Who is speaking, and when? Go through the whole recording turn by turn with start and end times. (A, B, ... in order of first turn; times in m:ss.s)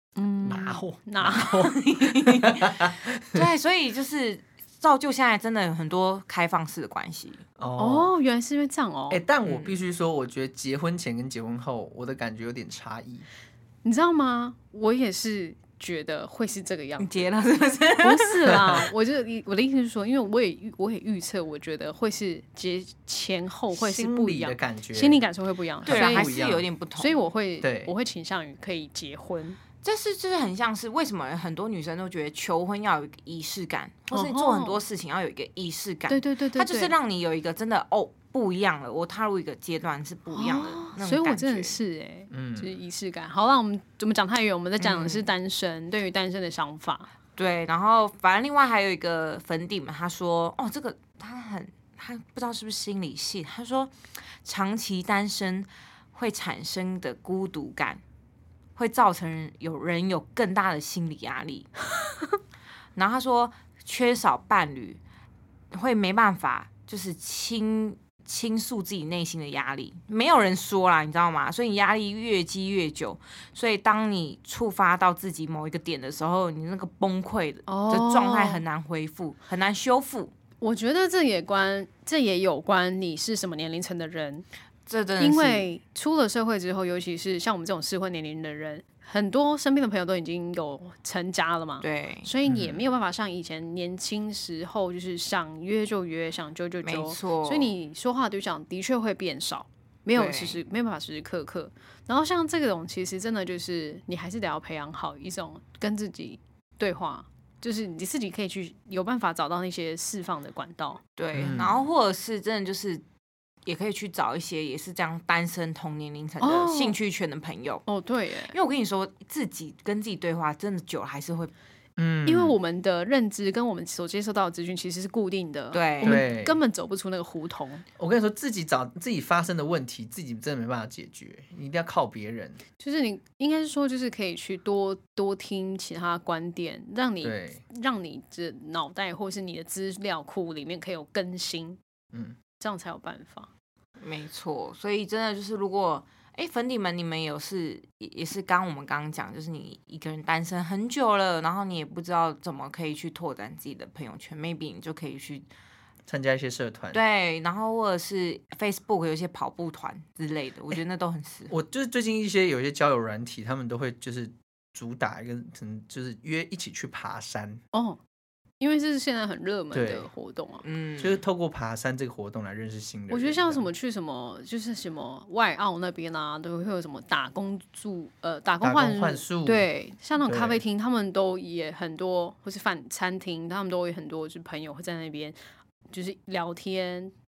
0:00.2-0:01.6 A
0:00.4-0:03.4 B
0:01.3-0:07.4 C
0:07.6-0:08.1 B
0:07.8-0:09.2 A
0:09.1-0:13.2 B
0:09.4-0:09.8 C
0:13.8-0:17.2 A
0:17.0-0:18.5 C
0:18.0-0:26.4 A
0:18.5-0:18.9 B
0:23.7-0:25.2 B
0:25.8-0:26.7 B
0:25.8-0:27.2 C
0:27.0-0:29.6 A
0:27.6-0:27.9 B
0:29.8-0:41.8 C
0:34.1-0:34.8 A
0:36.1-0:36.9 A
0:40.3-0:47.1 A
0:42.3-0:42.7 B
0:44.8-0:45.3 C
0:47.4-0:53.9 C
0:54.4-0:58.0 C
0:58.8-1:01.7 C
1:03.0-1:05.0 C
1:05.7-1:20.3 C
1:17.7-1:18.6 A
1:20.6-1:24.4 A
1:24.9-1:25.6 C
1:25.2-1:51.0 A
1:31.8-1:32.3 C
1:32.4-1:32.8 B
1:36.8-1:37.7 C
1:40.1-1:40.6 C
1:51.2-1:53.0 C
1:51.3-1:51.9 B
1:53.6-1:57.8 C
1:56.4-1:57.0 A
1:57.8-1:58.5 A
1:58.5-2:01.5 C
2:02.0-2:02.5 B
2:02.2-2:07.8 A
2:05.7-2:06.2 C
2:06.0-2:06.6 B
2:08.0-2:12.6 B
2:12.8-2:21.8 A
2:17.2-2:17.6 B
2:22.6-2:23.5 A
2:24.0-2:35.4 C
2:36.1-2:37.0 B
2:36.9-2:41.5 C
2:41.5-2:47.6 B
2:47.7-2:48.0 A
2:48.6-2:50.6 A
2:49.7-2:50.1 B
2:50.6-2:51.2 C
2:51.0-2:53.6 B
2:53.1-3:05.4 A
2:58.6-2:59.7 B
3:00.2-3:00.6 B
3:05.9-3:07.1 A